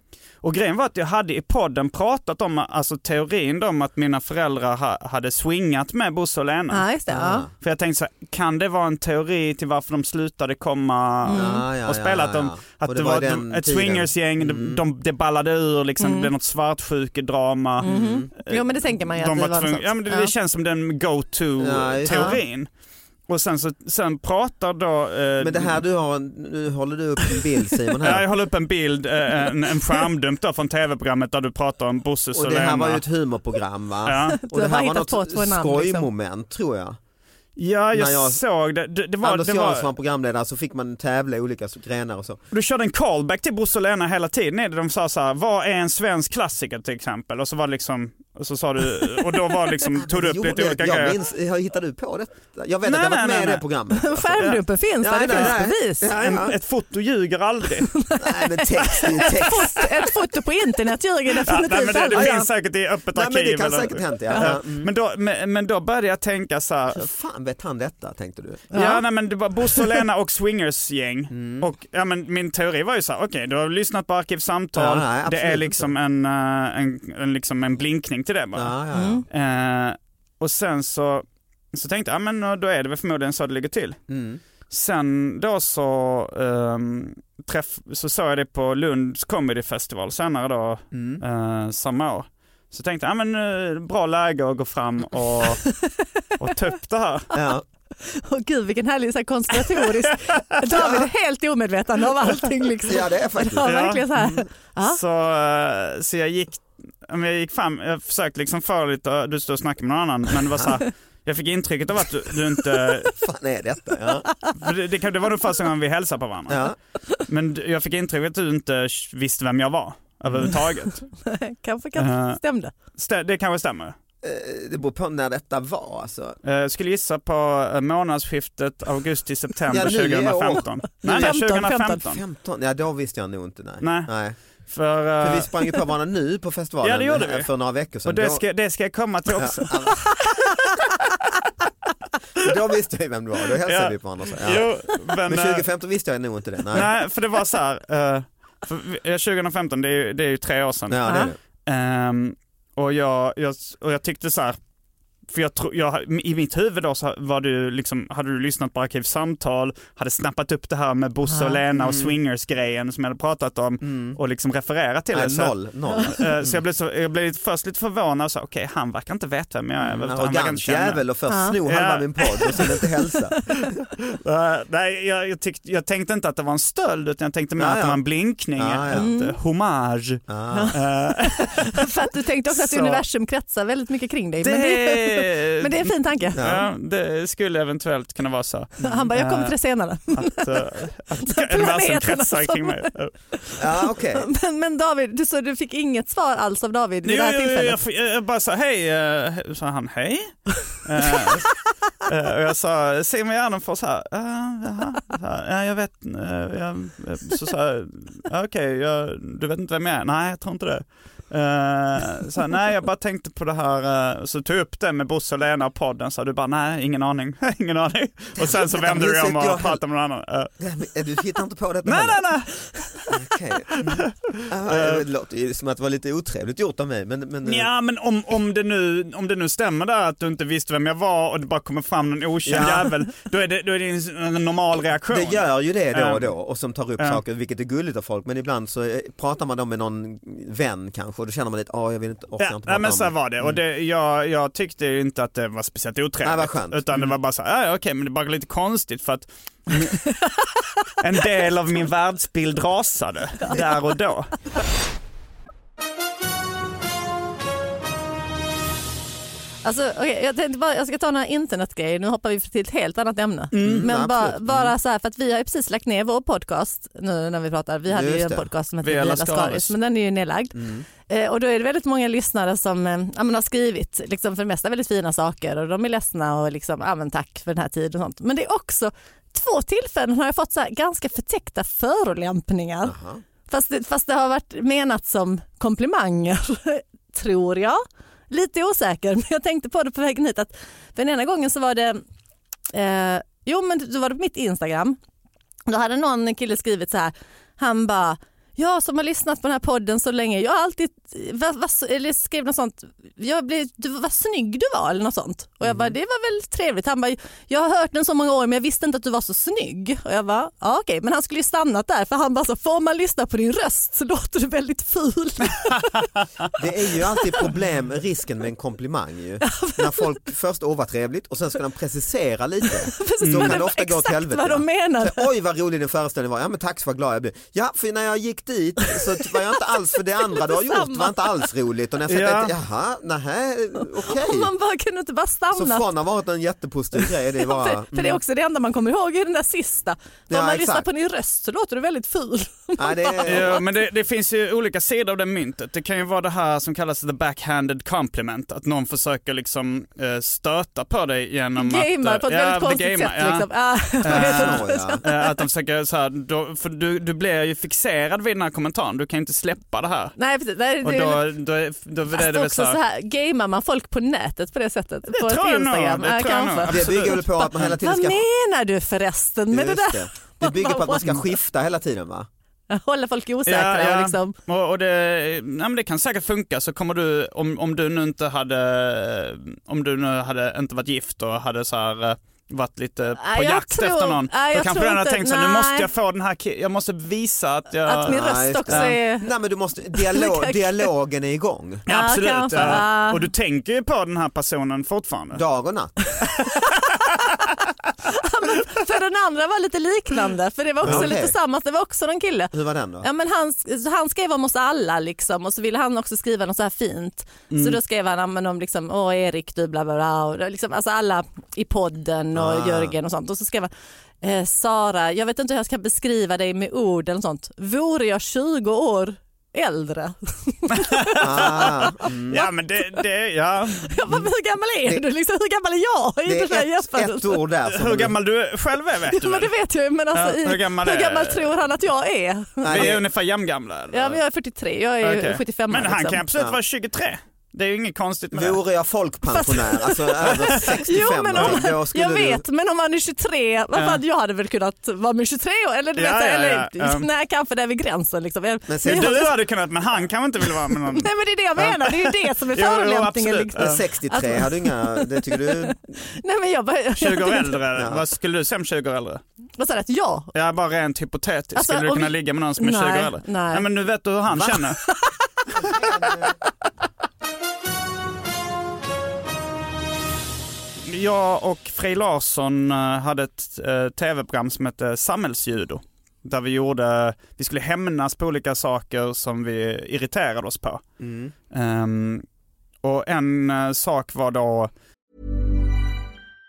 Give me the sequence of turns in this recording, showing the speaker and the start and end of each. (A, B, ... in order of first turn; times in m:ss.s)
0:00.4-0:06.9 A
0:06.7-0:07.4 B
0:07.1-0:07.5 C
0:07.6-0:22.7 A
0:11.3-0:14.8 C
0:11.3-0:11.6 B
0:16.0-0:16.3 B
0:17.8-0:20.3 B
0:17.8-0:18.3 C
0:21.6-0:22.4 C
0:22.1-0:22.4 B
0:23.2-0:25.8 A
0:25.4-0:28.2 C
0:28.0-0:33.0 A
0:32.3-0:37.0 C
0:34.0-0:34.4 A
0:34.4-0:36.1 B
0:37.6-0:39.9 A
0:37.9-0:38.4 C
0:39.2-0:42.4 C
0:42.5-0:51.2 A
0:50.0-0:54.5 C
0:52.8-0:53.6 A
0:54.0-0:56.5 B
0:54.4-0:54.6 A
0:55.0-0:56.6 C
0:55.3-0:58.0 A
0:58.1-1:02.3 B
0:58.2-0:59.9 C
1:01.4-1:07.1 A
1:02.1-1:02.6 C
1:03.1-1:04.9 C
1:06.9-1:08.7 C
1:08.7-1:09.0 B
1:08.7-1:24.0 A
1:11.3-1:11.7 C
1:14.7-1:15.9 C
1:18.5-1:19.2 C
1:18.9-1:19.2 B
1:24.1-1:24.4 C
1:24.7-1:35.7 A
1:30.9-1:31.2 C
1:36.4-1:37.3 A
1:37.3-1:37.6 C
1:38.0-1:45.0 B
1:40.0-1:40.3 A
1:40.7-1:41.0 C
1:42.9-1:44.4 C
1:43.6-1:44.1 A
1:44.8-1:53.2 A
1:53.2-1:54.3 C
1:54.6-1:56.6 A
1:56.5-1:56.8 C
1:57.2-2:01.1 A
2:00.3-2:00.5 C
2:01.1-2:02.7 B
2:02.0-2:04.0 A
2:04.2-2:06.4 C
2:06.4-2:12.2 A
2:09.7-2:14.4 C
2:11.0-2:12.0 B
2:13.8-2:15.5 A
2:14.9-2:18.4 C
2:16.8-2:17.5 A
2:18.0-2:20.3 A
2:19.4-2:20.2 C
2:22.4-2:26.9 C
2:23.6-2:25.6 A
2:26.7-2:34.6 A
2:30.9-2:31.4 C
2:31.0-2:31.3 B
2:35.3-2:51.0 A
2:41.3-2:41.6 B
2:41.8-2:42.2 C
2:43.8-2:44.2 C
2:45.1-2:46.6 C
2:49.8-2:53.5 C
2:51.3-2:51.6 B
2:51.6-2:52.4 A
2:54.2-3:01.7 A
2:57.6-2:58.0 C
2:58.5-2:59.1 C
2:58.9-2:59.3 B
3:00.3-3:00.8 C
3:00.5-3:06.5 B
3:02.5-3:03.0 A
3:04.4-3:13.2 A
3:06.4-3:06.6 C
3:08.8-3:10.6 B
3:11.2-3:13.5 B
3:13.6-3:14.3 C
3:14.1-3:17.8 B
3:17.0-3:40.5 A
3:38.4-3:39.8 C
3:40.6-3:42.2 C
3:41.8-3:43.1 A
3:43.1-3:47.7 C
3:43.8-3:44.1 A
3:44.7-3:45.0 A
3:47.4-3:56.3 A
3:52.4-3:52.9 C
3:55.1-4:03.6 C
4:02.4-4:10.4 A
4:06.2-4:07.1 C
4:11.0-4:14.5 A
4:19.6-4:42.9 B
4:23.5-4:23.9 A
4:23.6-4:24.7 C
4:27.9-4:28.5 C
4:28.8-4:29.7 A
4:30.5-4:30.9 C
4:42.8-4:43.2 C
4:43.5-4:52.0 B
4:52.7-4:55.0 B
4:55.7-5:16.1 B
5:05.6-5:05.9 C
5:16.6-5:34.5 C
5:19.4-5:20.2 B
5:23.0-5:25.3 B
5:23.2-5:23.6 A
5:28.9-5:29.3 B
5:30.3-5:31.5 B
5:32.1-5:32.5 A
5:34.0-5:35.8 B
5:35.5-5:38.2 C
5:37.0-5:43.6 B
5:40.3-5:40.8 C
5:42.8-5:43.6 C
5:43.2-5:53.5 A
5:51.6-5:55.3 B
5:54.0-6:00.2 A
5:54.1-5:55.0 C
6:00.2-6:01.2 B
6:00.8-6:02.8 A
6:02.1-6:11.3 B
6:05.1-6:07.7 A
6:06.7-6:08.2 C
6:09.5-6:12.3 C
6:12.7-6:14.4 B
6:13.5-6:29.0 A
6:23.2-6:25.9 B
6:27.9-6:29.3 B
6:28.0-6:31.8 C
6:29.9-6:30.9 B
6:31.9-6:33.2 B
6:31.9-6:35.4 A
6:32.5-6:32.8 C
6:35.3-6:36.2 C
6:36.9-6:37.3 A
6:38.0-7:02.8 B
6:40.8-6:41.4 C
6:40.8-6:41.1 A
6:42.5-6:43.1 C
6:47.5-6:47.8 A
6:52.3-6:52.9 C
7:01.2-7:02.4 C
7:01.4-7:01.7 A
7:02.3-7:03.9 A
7:03.8-7:07.4 B
7:06.2-7:08.1 C
7:07.7-7:09.5 A
7:09.1-7:13.0 B
7:10.1-7:11.5 A
7:12.6-7:13.0 C
7:12.7-7:14.2 A
7:13.9-7:16.2 B
7:15.0-7:18.6 A
7:18.3-7:22.4 C
7:19.3-7:29.3 B
7:23.7-7:24.0 A
7:26.0-7:27.1 A
7:28.7-7:29.3 C
7:28.8-7:33.8 A
7:30.4-7:37.6 B
7:33.6-7:35.8 C
7:37.0-7:39.2 A
7:37.8-7:38.0 C
7:39.6-7:40.3 B
7:40.3-7:44.8 A
7:41.6-7:43.6 B
7:44.4-7:45.1 B
7:45.5-7:46.4 C
7:50.8-8:00.8 A
8:01.0-8:01.3 C
8:01.5-8:02.2 A
8:02.8-8:04.7 A